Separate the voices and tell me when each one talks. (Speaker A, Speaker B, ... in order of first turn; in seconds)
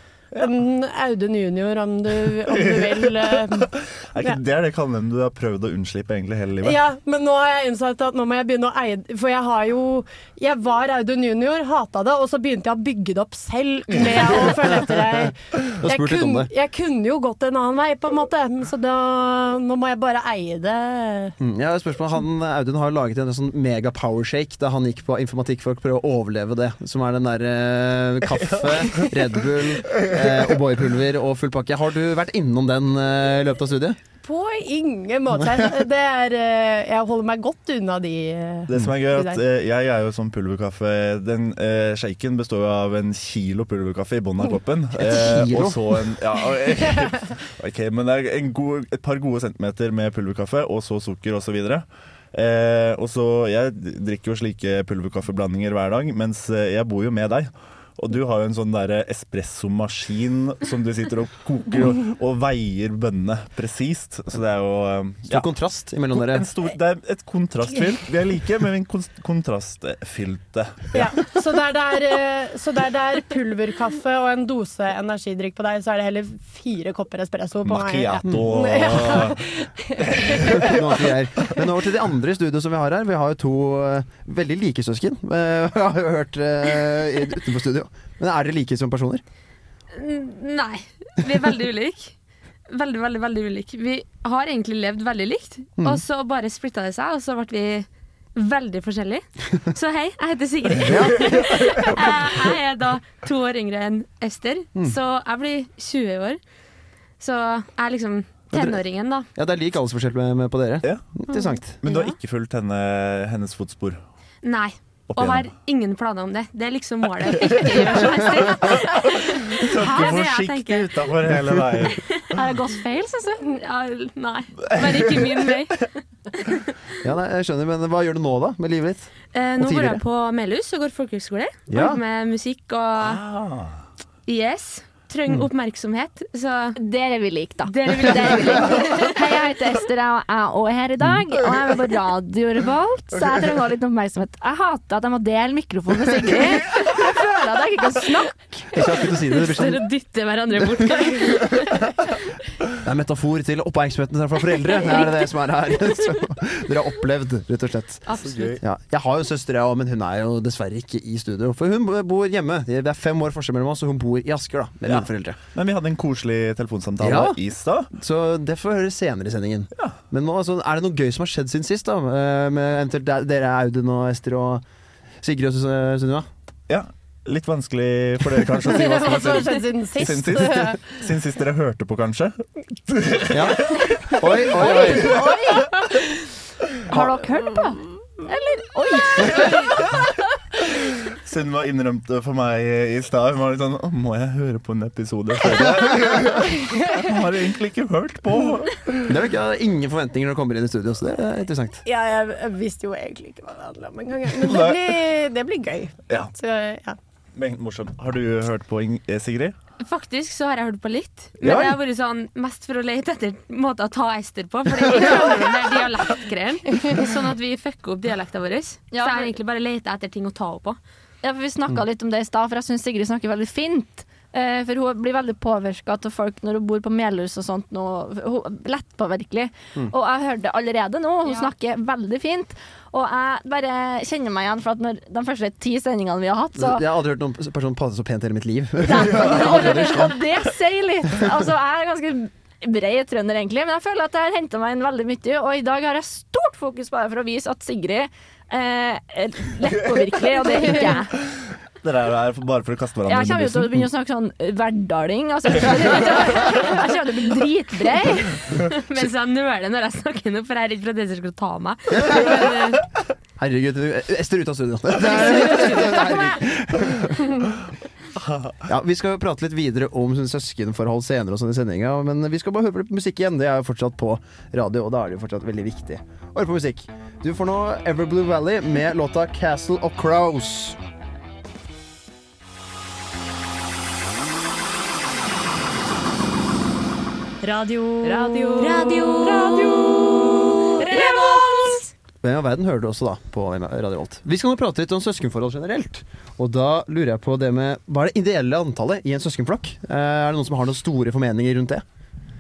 Speaker A: 0.4-3.7, 6.6-21.4, 34.2-39.4, 70.9-80.8, 178.6-180.9, 201.8-207.0, 287.4-291.8
Speaker B: 2.4-6.8, 38.7-65.5, 66.1-71.0, 77.6-79.4, 80.0-80.8, 111.8-114.0, 115.1-115.4, 117.4-117.8, 118.6-122.4, 124.7-125.2, 133.0-133.7, 158.2-158.6, 164.9-167.9, 176.7-182.3, 182.9-184.4, 191.1-199.1, 204.4-204.9, 207.3-209.5, 211.4-211.7, 251.8-253.8, 268.3-268.5
Speaker C: 14.9-15.1, 15.8-16.5, 21.4-34.0, 45.0-45.8, 65.3-66.5, 80.6-89.2, 100.8-102.2, 108.5-108.8, 109.3-111.8, 127.0-130.0, 131.7-132.0, 148.7-149.8, 152.8-158.1, 158.6-165.4, 167.0-167.4, 167.9-174.6, 175.2-176.3, 183.3-185.2, 199.1-201.8, 236.6-240.2, 261.9-262.2, 263.4-267.3, 268.6-280.8, 292.2-301.8
Speaker D: 90.0-92.1, 92.7-106.4, 107.2-109.2, 114.4-120.9, 123.4-125.9, 129.3-133.2, 134.3-136.8, 137.7-139.1, 149.3-151.8, 158.1-158.6, 209.8-220.8, 258.6-262.8, 288.6-291.8
Speaker E: 122.3-123.4, 136.8-148.7, 184.6-185.7, 186.9-189.6, 218.9-219.3, 221.2-236.8, 238.9-251.1, 253.1-258.4